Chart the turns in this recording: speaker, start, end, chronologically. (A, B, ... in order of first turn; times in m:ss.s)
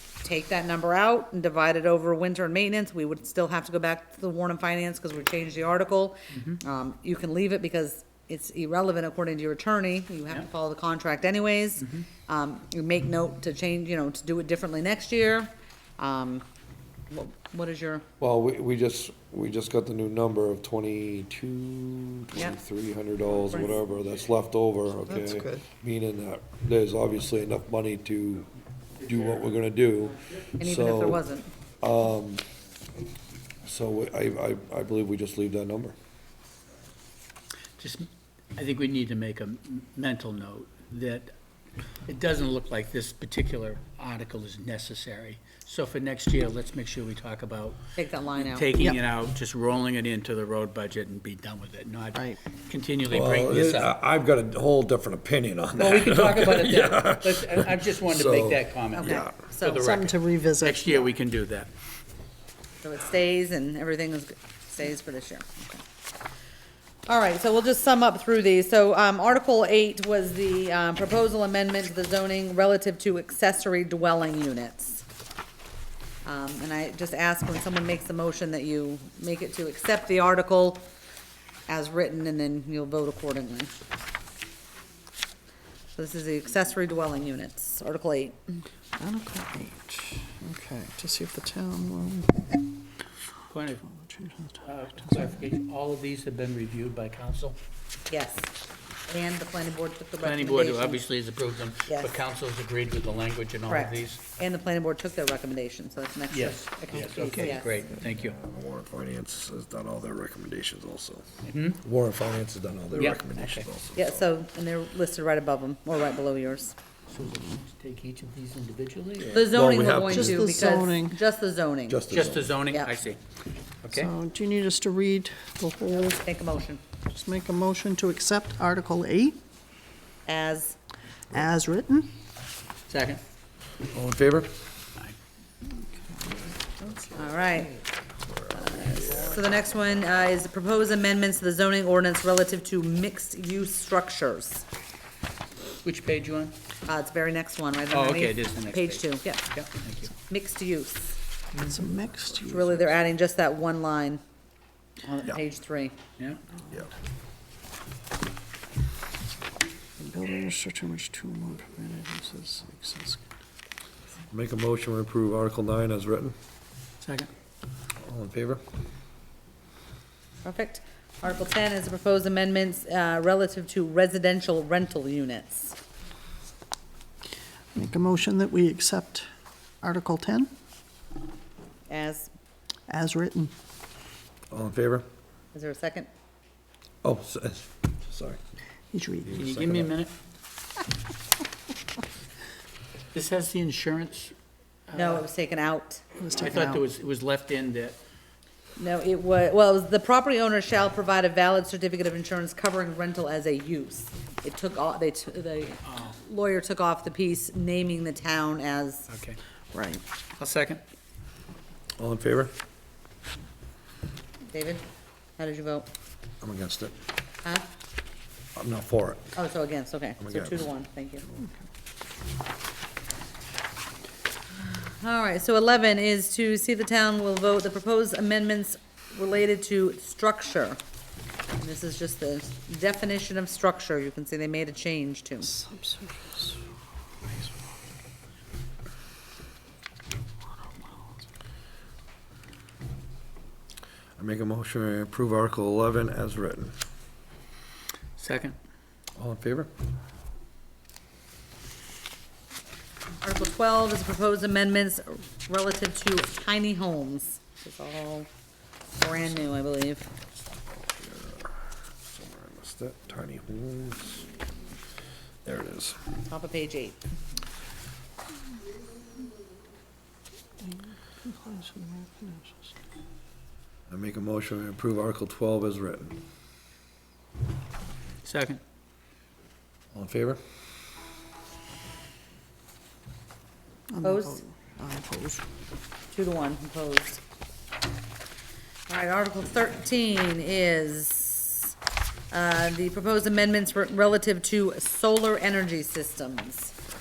0:00.2-0:16.4 A
0:17.1-0:18.0 A
0:18.2-0:28.5 B
0:29.0-0:31.2 B
0:30.6-0:31.5 A
0:31.8-0:32.4 B
0:33.6-0:36.0 B
0:37.8-0:41.3 C
0:42.1-0:47.8 C
0:48.0-0:48.7 A
0:48.4-0:53.9 C
0:53.1-0:59.3 B
0:55.8-0:57.0 A
0:56.2-1:01.7 C
0:58.9-0:59.9 A
0:59.8-1:01.1 D
1:02.8-1:05.8 A
1:07.1-1:15.0 A
1:16.2-1:20.9 A
1:21.7-1:23.7 A
1:26.0-1:28.4 A
1:29.0-1:32.4 D
1:33.5-1:33.8 C
1:33.8-1:35.2 D
1:34.6-1:37.6 C
1:38.1-1:38.5 A
1:39.1-1:41.0 A
1:40.2-1:44.2 C
1:41.8-1:42.2 A
1:43.7-1:47.8 A
1:46.3-1:48.4 C
1:47.1-1:47.5 D
1:48.1-1:51.3 B
1:51.4-1:51.8 C
1:51.8-1:54.2 B
1:52.9-1:53.7 C
1:53.9-1:56.7 A
1:57.1-1:59.5 C
1:59.3-2:02.0 A
1:59.3-2:00.5 B
2:00.1-2:01.2 D
2:01.9-2:02.6 B
2:02.1-2:03.2 C
2:03.8-2:04.1 C
2:03.9-2:06.2 D
2:05.9-2:06.8 A
2:07.1-2:09.4 D
2:10.2-2:10.7 A
2:11.3-2:12.1 D
2:12.9-2:13.2 C
2:13.9-2:14.5 B
2:16.0-2:16.9 D
2:17.1-2:17.8 A
2:18.3-2:19.4 B
2:18.5-2:24.6 A
2:25.8-2:26.5 C
2:26.8-2:29.4 A
2:27.9-2:30.1 C
2:30.3-2:31.1 A
2:31.6-2:32.8 D
2:32.5-2:34.2 A
2:35.0-2:35.3 C
2:35.2-2:35.9 A
2:40.0-2:43.2 D
2:44.3-2:46.3 B
2:47.0-2:47.3 C
2:48.0-2:48.6 B
2:50.4-2:55.8 A
2:57.7-2:59.3 D
2:59.8-3:00.5 D
3:01.9-3:02.3 A
3:02.9-3:03.5 D
3:04.5-3:05.0 B
3:05.5-3:06.1 A
3:07.0-3:08.4 B
3:08.9-3:09.4 D
3:09.2-3:09.9 B
3:09.3-3:10.1 C
3:13.1-3:14.3 C
3:14.9-3:15.2 C
3:14.9-3:16.0 A
3:16.2-3:16.8 D
3:16.4-3:18.0 C
3:18.8-3:29.1 A
3:25.8-3:26.1 C
3:29.1-3:29.4 C
3:29.7-3:30.0 D
3:30.4-3:30.8 C
3:32.0-3:32.5 B
3:34.5-3:34.8 A
3:35.4-3:35.9 A
3:36.4-3:36.9 B
3:38.6-3:39.3 B
3:39.3-3:41.2 A
3:40.2-3:40.6 B
3:44.8-3:50.8 A
3:51.6-3:55.6 A
3:55.5-3:56.6 D
4:04.2-4:06.7 B
4:08.2-4:08.6 C
4:09.2-4:09.7 B
4:13.2-4:18.3 A
4:19.0-4:20.1 A
4:20.7-4:24.3 B
4:25.4-4:26.0 B
4:26.3-4:27.0 A
4:31.2-4:32.7 D
4:33.9-4:36.2 B
4:38.2-4:38.6 C
4:39.9-4:40.4 B
4:43.9-4:45.4 D
4:44.0-4:44.4 A
4:46.1-4:47.2 A
4:48.9-4:51.7 A
4:52.3-4:56.7 A